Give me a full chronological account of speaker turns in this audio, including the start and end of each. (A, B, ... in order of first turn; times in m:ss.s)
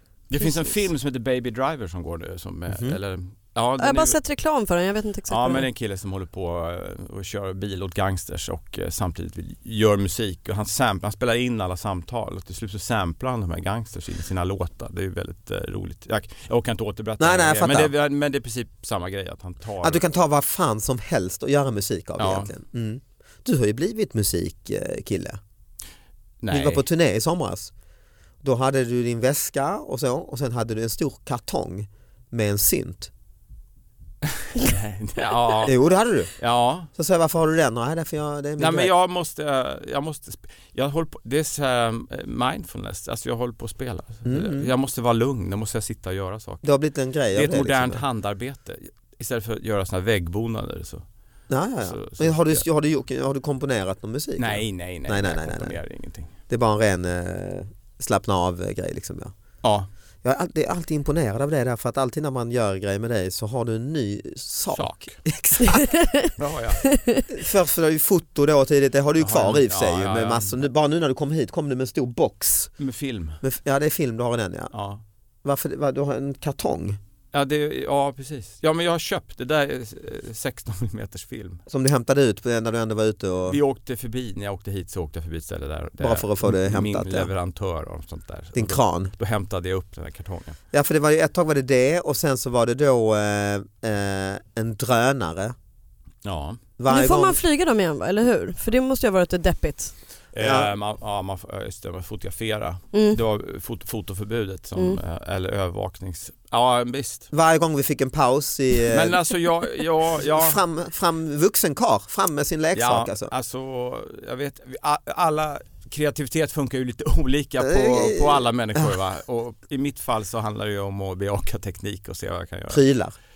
0:00.3-0:04.2 A
0:02.7-0:03.0 B
0:03.8-0:05.7 C
0:05.3-0:20.0 A
0:17.2-0:17.9 B
0:19.8-0:25.4 B
0:22.2-0:22.5 A
0:26.4-0:26.8 A
0:26.5-0:27.7 B
0:28.4-0:33.1 B
0:34.4-0:35.7 A
0:35.6-0:36.3 B
0:36.4-0:36.9 A
0:36.9-0:38.9 B
0:38.6-0:46.6 A
0:44.2-0:44.7 B
0:46.6-0:48.0 B
0:47.3-0:51.0 A
0:51.5-0:55.8 B
0:51.8-0:52.6 A
0:54.4-0:56.3 A
0:56.5-0:59.3 B
0:59.6-0:59.9 A
1:00.2-1:05.9 B
1:04.7-1:05.2 A
1:05.6-1:06.3 C
1:06.4-1:06.8 A
1:06.8-1:07.2 C
1:07.3-1:12.7 B
1:09.2-1:10.6 A
1:12.8-1:13.4 A
1:13.4-1:14.7 B
1:14.7-1:15.0 A
1:15.4-1:17.0 B
1:17.3-1:21.6 A
1:21.7-1:23.6 B
1:23.5-1:30.6 A
1:26.0-1:27.3 B
1:28.5-1:29.1 B
1:30.7-1:35.5 B
1:36.2-1:36.6 A
1:36.8-1:37.4 B
1:36.9-1:39.9 C
1:40.3-1:47.3 A
1:40.4-1:40.7 B
1:47.3-1:49.2 B
1:48.9-1:50.6 A
1:50.2-1:53.3 B
1:52.7-2:02.8 A
1:57.6-1:58.9 B
2:02.7-2:03.2 B